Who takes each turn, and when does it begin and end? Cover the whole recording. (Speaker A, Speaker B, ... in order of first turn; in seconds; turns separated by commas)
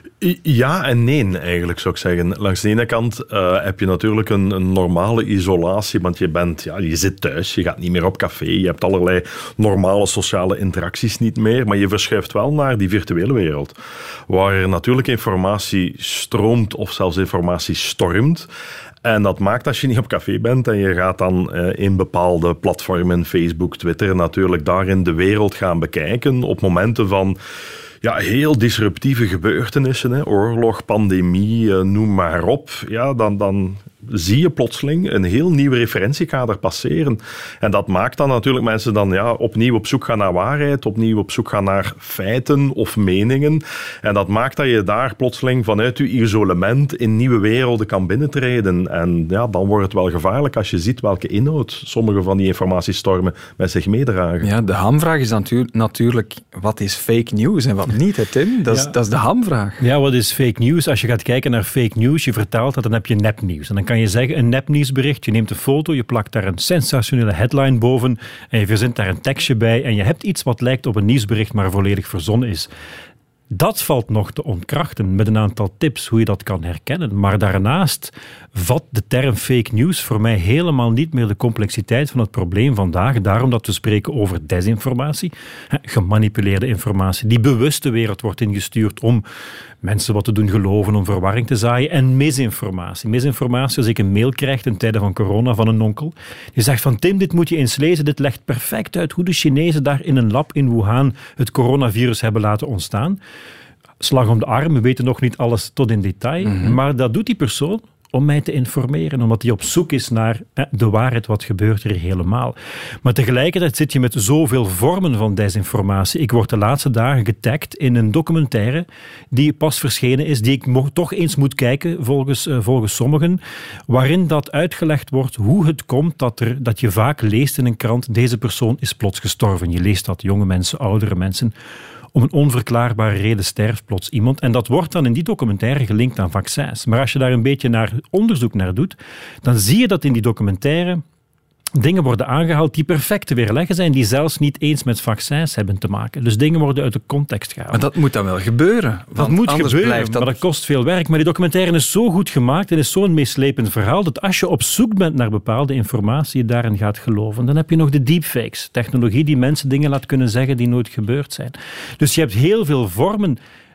Speaker A: 0.2-13.8, Speaker A: 14.3-18.5, Speaker A: 19.0-27.4, Speaker A: 28.0-54.5, Speaker B: 54.4-59.8, Speaker C: 59.8-72.7, Speaker C: 73.5-89.2, Speaker C: 89.8-103.2, Speaker C: 104.0-131.5, Speaker B: 106.5-106.8, Speaker C: 132.1-141.0, Speaker C: 141.8-147.8, Speaker B: 147.7-150.4, Speaker C: 149.2-163.4